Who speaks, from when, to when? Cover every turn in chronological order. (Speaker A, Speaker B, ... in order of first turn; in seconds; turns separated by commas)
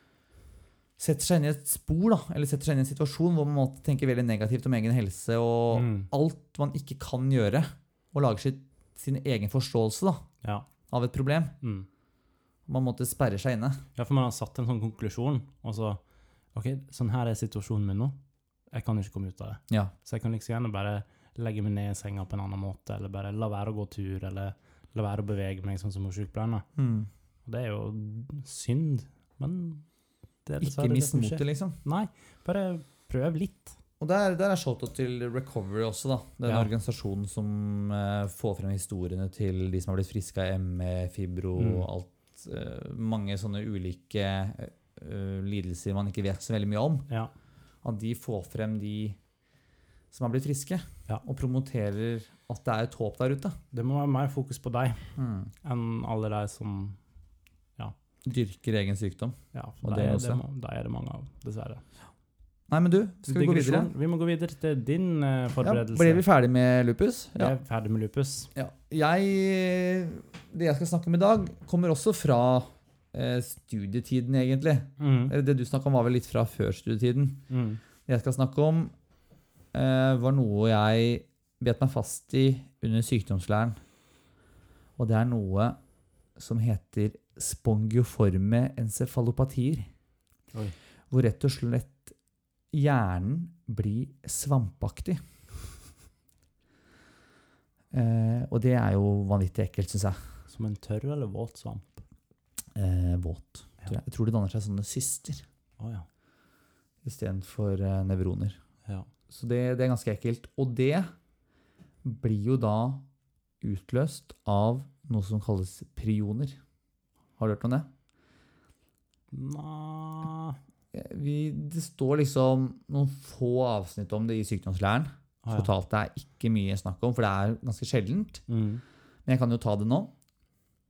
Speaker A: 1.0-10.2, Speaker B: 5.7-6.1, Speaker A: 10.9-11.5, Speaker B: 11.6-11.9, Speaker A: 12.7-13.8, Speaker B: 13.9-16.0, Speaker B: 16.5-18.1, Speaker B: 18.7-26.6, Speaker A: 26.8-27.1, Speaker B: 27.4-29.8, Speaker B: 30.4-33.8, Speaker A: 30.6-31.8, Speaker A: 34.0-47.0, Speaker B: 41.6-41.9, Speaker A: 47.8-49.2, Speaker A: 50.1-53.6, Speaker B: 53.7-57.0, Speaker A: 55.1-55.5, Speaker A: 58.2-60.4, Speaker B: 59.5-61.8, Speaker A: 62.7-63.9, Speaker B: 63.3-66.2, Speaker A: 65.6-67.5, Speaker B: 67.3-68.5, Speaker A: 68.5-77.4, Speaker B: 75.0-75.3, Speaker B: 77.5-77.8, Speaker A: 78.0-78.9, Speaker A: 79.7-83.8, Speaker A: 85.0-85.8, Speaker A: 86.3-89.9, Speaker A: 91.1-92.1, Speaker A: 92.7-95.2, Speaker A: 97.9-100.2, Speaker B: 100.5-102.0, Speaker A: 102.8-105.4, Speaker B: 105.8-106.1, Speaker A: 107.0-108.6, Speaker A: 109.3-111.1, Speaker A: 112.0-113.0, Speaker A: 113.6-116.6, Speaker A: 117.4-117.9, Speaker B: 119.3-120.6, Speaker A: 120.9-128.4, Speaker B: 125.4-125.7, Speaker B: 128.5-128.8, Speaker A: 129.2-130.1